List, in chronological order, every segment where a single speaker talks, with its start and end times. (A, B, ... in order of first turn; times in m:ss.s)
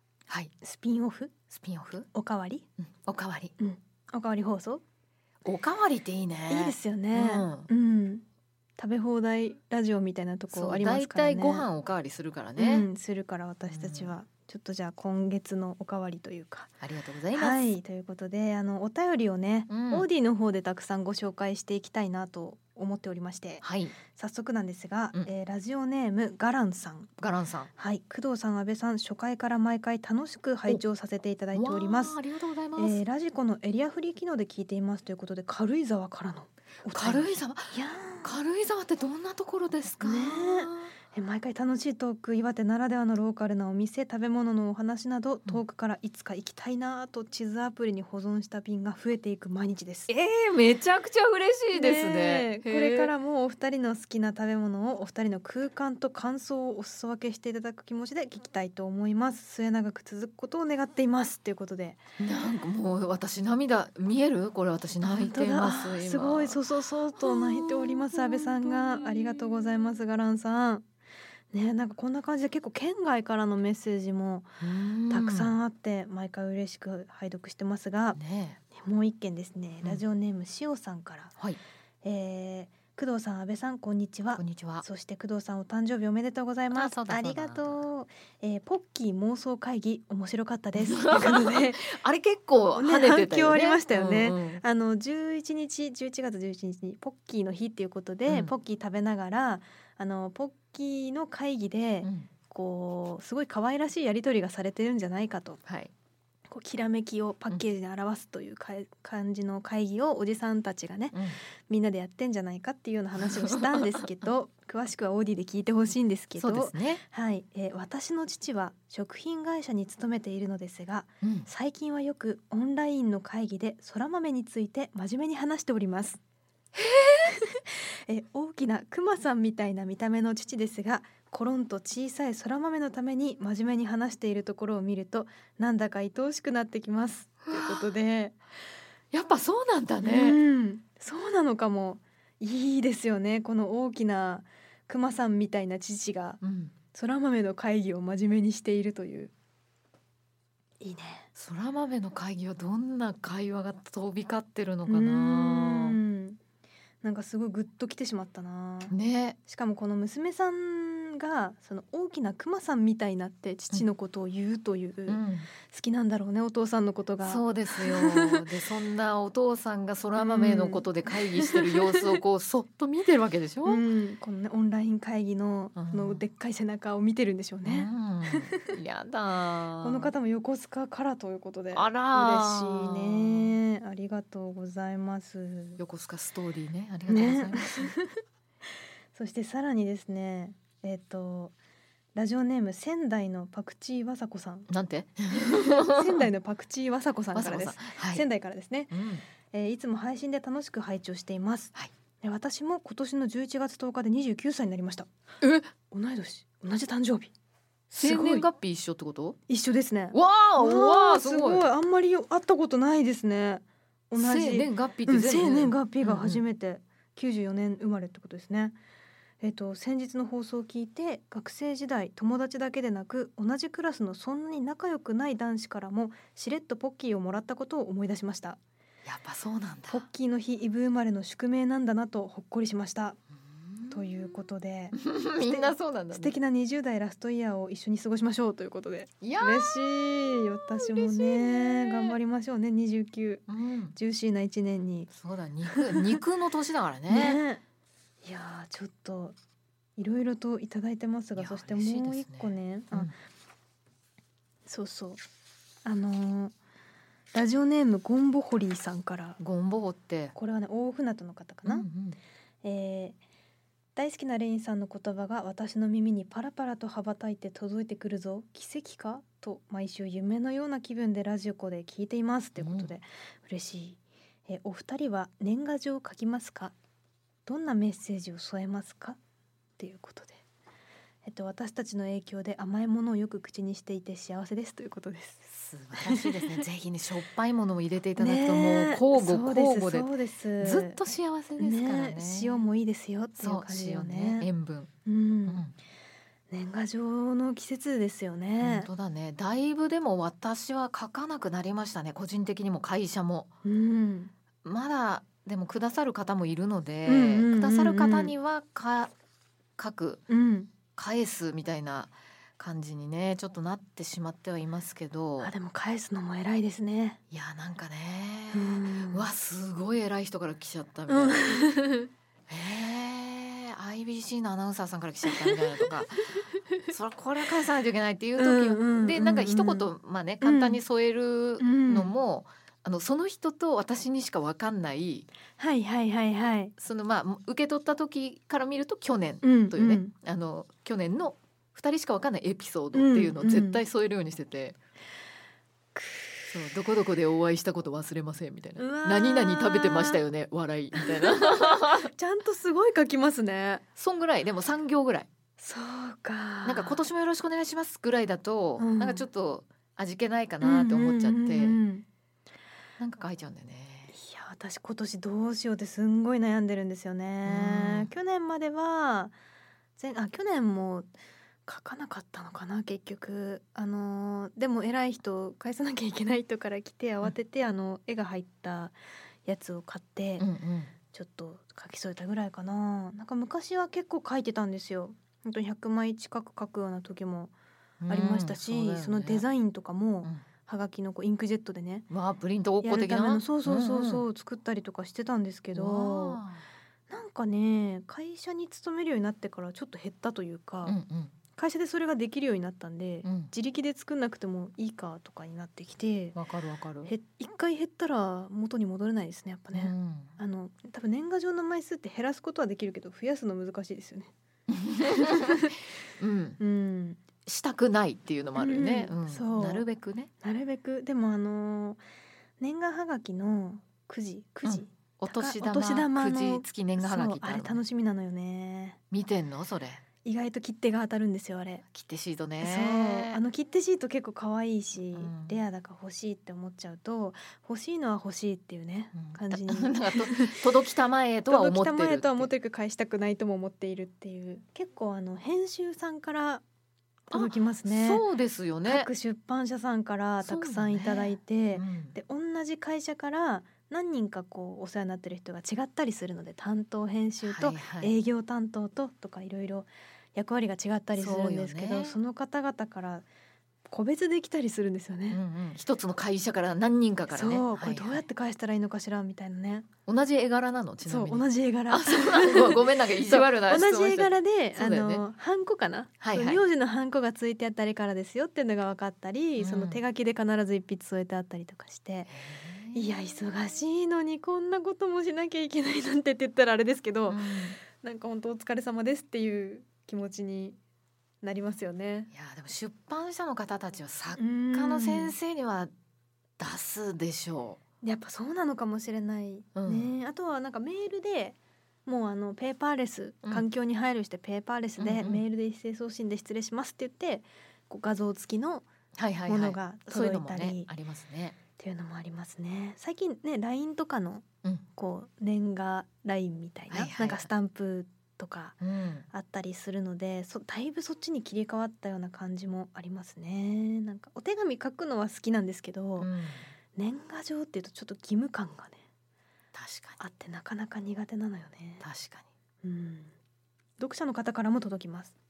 0:00.6-0:01.3 A
0:01.5-0:02.1 B
0:02.1-0:02.7 A
0:02.8-0:03.5 B
0:03.6-0:04.8 A
0:05.4-0:07.7 B
0:06.5-0:08.2 A
0:08.8-0:11.7 A
0:10.5-0:12.9 B
0:12.6-0:16.7 A
0:13.7-0:14.1 B
0:16.8-0:17.6 B
0:17.3-0:27.1 A
0:19.7-0:20.0 B
0:23.6-0:24.0 B
0:27.2-0:27.7 B
0:27.8-0:32.2 A
0:31.5-0:33.0 B
0:32.8-0:38.3 A
0:36.9-0:40.9 B
0:40.0-0:50.1 A
0:50.1-0:53.1 B
0:51.7-1:02.0 A
1:02.2-1:10.0 B
1:05.0-1:10.8 A
1:11.5-1:14.5 A
1:14.6-1:15.6 B
1:15.1-1:18.2 A
1:18.1-1:18.6 B
1:18.7-1:21.3 A
1:22.0-1:31.9 A
1:24.4-1:24.8 B
1:26.7-1:27.8 B
1:30.8-1:34.6 B
1:32.7-1:45.6 A
1:38.3-1:38.5 B
1:42.0-1:42.3 B
1:45.6-1:45.9 B
1:46.5-2:06.2 A
1:51.1-1:51.4 B
1:56.4-1:57.0 B
2:01.2-2:01.5 B
2:06.7-2:07.3 B
2:07.2-2:18.4 A
2:17.5-2:17.9 B
2:19.1-2:20.4 B
2:20.0-2:26.4 A
2:26.4-2:26.7 B
2:26.9-2:29.3 A
2:30.8-2:31.3 A
2:31.3-2:36.0 B
2:34.9-2:36.4 A
2:37.0-2:38.9 A
2:38.9-2:39.4 B
2:39.4-2:48.4 A
2:45.1-2:45.5 B
2:47.2-2:53.8 B
2:50.2-2:52.2 A
2:53.6-2:58.7 A
2:55.8-2:56.2 B
2:57.6-3:00.1 B
2:59.8-3:05.8 A
3:01.7-3:03.6 B
3:05.8-3:07.9 B
3:07.1-3:08.2 A
3:09.1-3:11.5 A
3:12.1-3:14.7 A
3:14.7-3:16.3 B
3:15.5-3:18.9 A
3:17.3-3:18.2 B
3:18.9-3:19.2 B
3:19.5-3:25.1 A
3:25.4-3:25.7 B
3:25.9-3:27.3 A
3:27.9-3:29.4 B
3:27.9-3:28.5 A
3:29.5-3:38.8 A
3:30.1-3:31.7 B
3:34.2-3:36.4 B
3:39.4-3:48.6 A
3:49.0-3:50.0 B
3:49.9-3:53.2 A
3:53.5-3:56.4 B
3:53.9-4:05.1 A
3:59.2-4:02.2 B
4:03.5-4:04.0 B
4:05.1-4:07.4 B
4:05.6-4:06.2 A
4:07.1-4:07.6 A
4:08.2-4:09.4 A
4:10.0-4:13.1 A
4:11.4-4:13.1 B
4:14.6-4:15.2 A
4:15.8-4:16.5 A
4:17.3-4:19.4 A
4:19.4-4:20.4 B
4:20.3-4:21.9 A
4:21.6-4:22.2 B
4:22.6-4:23.2 A
4:24.0-4:36.7 A
4:32.6-4:32.9 B
4:37.4-4:39.2 A
4:39.8-4:40.4 A
4:41.2-4:45.5 A
4:45.4-4:52.6 B
4:46.0-4:46.6 A
4:48.2-4:51.0 A
4:51.6-4:54.5 A
4:53.4-4:54.9 B
4:55.0-4:55.6 A
4:55.5-4:55.8 B
4:56.5-4:58.9 A
4:58.6-5:03.5 B
5:03.6-5:04.3 A
5:04.6-5:09.1 B
5:07.0-5:08.3 A
5:09.8-5:10.2 B
5:10.3-5:10.7 A
5:10.9-5:15.5 B
5:15.4-5:17.2 A
5:17.3-5:21.6 B
5:18.5-5:19.3 A
5:21.1-5:22.1 A
5:22.5-5:26.3 B
5:25.2-5:26.4 A
5:26.9-5:35.3 B
5:28.4-5:29.9 A
5:30.4-5:30.8 A
5:31.6-5:32.2 A
5:35.6-5:36.7 A
5:36.8-5:44.8 B
5:39.4-5:40.1 A
5:42.9-5:43.8 A
5:46.0-5:46.5 A
5:46.5-5:52.1 B
5:48.8-5:50.2 A
5:50.9-5:53.8 A
5:54.0-5:55.3 B
5:55.6-5:57.0 A
5:56.6-6:01.8 B
5:58.8-5:59.3 A
6:00.6-6:02.0 A
6:03.0-6:04.1 B
6:04.1-6:09.3 A
6:07.4-6:08.1 B
6:10.0-6:11.1 A
6:11.6-6:20.5 A
6:20.4-6:20.9 B
6:21.1-6:27.5 A
6:28.0-6:29.4 B
6:28.1-6:32.1 A
6:32.1-6:34.2 B
6:32.8-6:36.4 A
6:35.7-6:36.7 B
6:37.1-6:41.0 A
6:40.8-6:41.3 B
6:41.5-6:46.4 A
6:43.2-6:43.5 B
6:46.3-6:47.1 B
6:47.0-6:54.3 A
6:49.7-6:50.4 B
6:54.7-6:56.6 B
6:55.0-6:55.8 A
6:56.6-6:57.2 A
6:57.4-7:00.3 B
6:58.6-6:59.8 A
7:00.4-7:02.0 A
7:02.6-7:09.0 A
7:04.6-7:07.8 B
7:09.1-7:10.0 B
7:10.2-7:11.8 A
7:11.9-7:13.4 B
7:12.6-7:20.6 A
7:15.1-7:15.6 B
7:19.1-7:22.5 B
7:21.5-7:26.6 A
7:27.3-7:28.2 A
7:27.3-7:29.1 B
7:28.8-7:43.2 A
7:30.4-7:32.2 B
7:37.4-7:38.1 B
7:41.2-7:42.2 B
7:43.9-7:45.4 A
7:45.3-7:48.2 B
7:47.3-7:49.9 A
7:50.1-7:55.2 B
7:51.0-8:02.3 A
7:56.2-7:56.6 B
7:59.6-8:00.0 B
8:02.3-8:03.1 B
8:02.9-8:10.8 A
8:07.3-8:07.8 B
8:11.4-8:12.3 A
8:12.3-8:15.9 B
8:14.4-8:15.4 A
8:16.6-8:17.8 B
8:18.0-8:28.8 A
8:19.7-8:20.1 B
8:25.0-8:25.4 B
8:29.2-8:31.6 B
8:29.5-8:30.9 A
8:31.8-8:38.8 A
8:36.9-8:37.5 B
8:38.8-8:39.3 B
8:39.3-8:46.3 A
8:46.2-8:46.7 B
8:47.0-8:49.0 A
8:49.7-8:50.2 B
8:50.2-8:52.0 A
8:52.0-8:52.5 B
8:52.8-8:53.3 A
8:54.0-8:55.3 A